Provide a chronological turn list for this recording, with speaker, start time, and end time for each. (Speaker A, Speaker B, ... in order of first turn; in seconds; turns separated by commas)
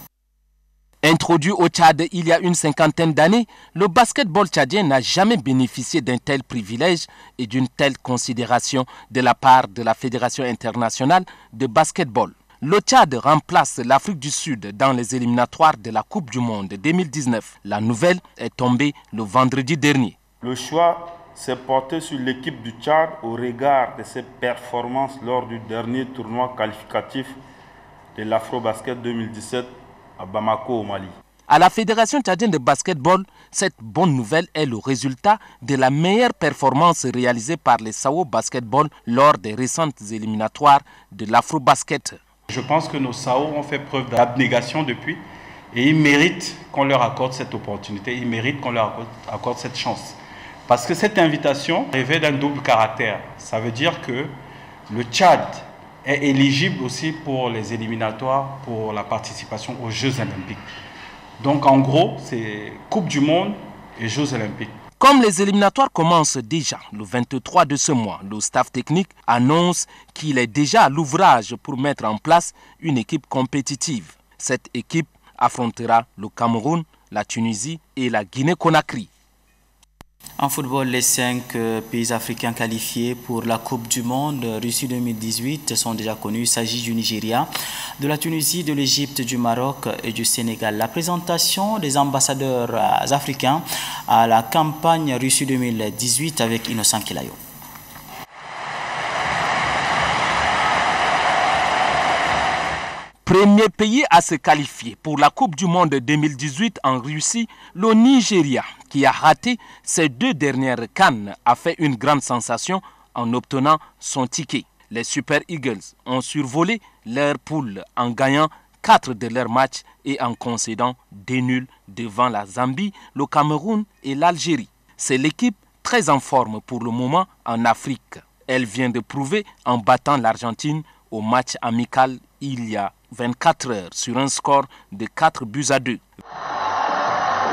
Speaker A: 1.0-20.1, Speaker B: 20.4-27.4, Speaker B: 28.1-31.1, Speaker A: 31.5-42.2, Speaker C: 42.5-45.2, Speaker C: 45.7-50.1, Speaker C: 50.7-54.3, Speaker C: 54.9-60.6, Speaker C: 61.4-64.7, Speaker A: 65.0-79.1, Speaker D: 80.4-97.4, Speaker A: 103.2-136.0